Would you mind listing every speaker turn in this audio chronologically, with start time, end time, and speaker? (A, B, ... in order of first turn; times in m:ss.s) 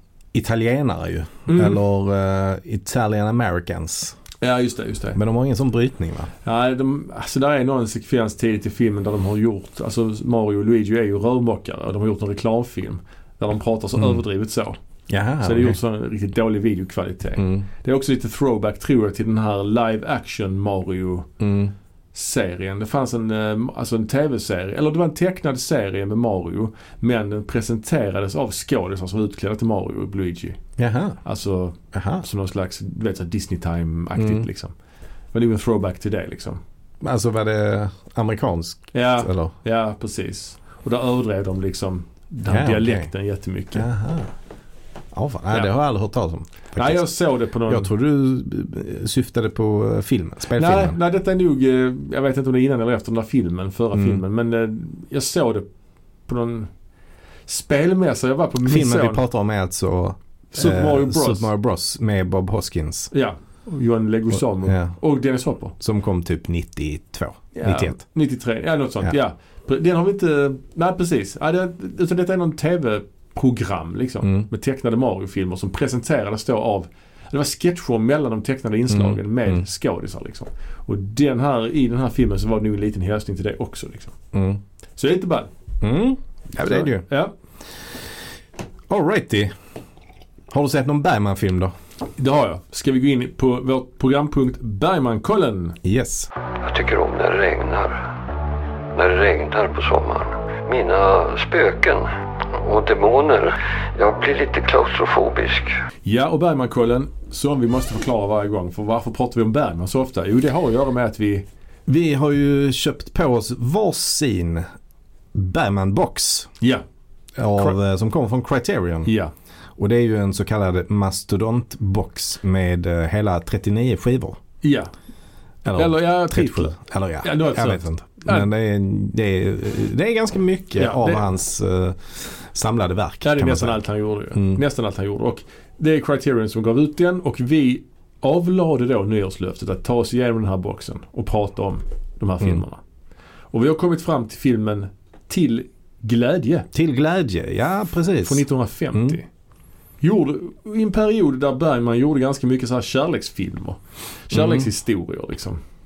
0:00.3-0:04.2 A
0:01.5-0:01.8 B
0:04.4-0:05.2 B
0:05.1-0:06.3 A
0:06.4-0:14.8 B
0:15.1-0:15.8 A
0:15.4-0:21.3 B
0:17.4-0:17.6 A
0:21.4-0:21.7 A
0:22.1-0:30.6 B
0:30.8-0:31.2 A
0:31.2-0:34.7 B
0:31.9-0:32.2 A
0:34.2-0:34.5 A
0:35.3-0:36.6 B
0:37.0-0:39.5 A
0:38.9-0:43.9 B
0:42.5-0:43.1 A
0:43.7-0:44.3 A
0:45.1-0:47.0 A
0:46.7-0:47.9 B
0:47.6-0:51.0 A
0:50.5-0:55.6 B
0:53.9-0:54.2 A
0:56.3-0:56.7 B
0:57.5-0:59.2 B
0:58.6-1:03.1 A
1:00.5-1:01.5 B
1:03.1-1:05.7 B
1:04.6-1:05.0 A
1:05.8-1:08.0 A
1:07.5-1:24.1 B
1:18.9-1:19.6 A
1:24.3-1:24.6 A
1:25.0-1:25.5 B
1:25.8-1:27.0 A
1:26.6-1:27.3 B
1:28.9-1:29.5 A
1:30.5-1:31.7 A
1:32.2-1:35.8 B
1:35.8-1:36.3 A
1:36.6-1:38.1 C
1:38.9-1:45.8 C
1:46.0-1:51.4 B
1:51.9-1:54.6 A
1:55.3-1:56.5 A
1:57.4-1:59.1 A
1:59.0-1:59.3 B
1:59.8-2:04.4 A
2:04.6-2:04.9 B
2:05.6-2:13.8 A
2:05.7-2:08.5 B
2:10.8-2:11.2 B
2:13.2-2:22.8 B
2:14.3-2:14.6 A
2:23.5-2:26.7 B
2:26.7-2:29.2 A
2:28.2-2:29.2 B
2:30.0-2:35.6 B
2:34.3-2:34.7 A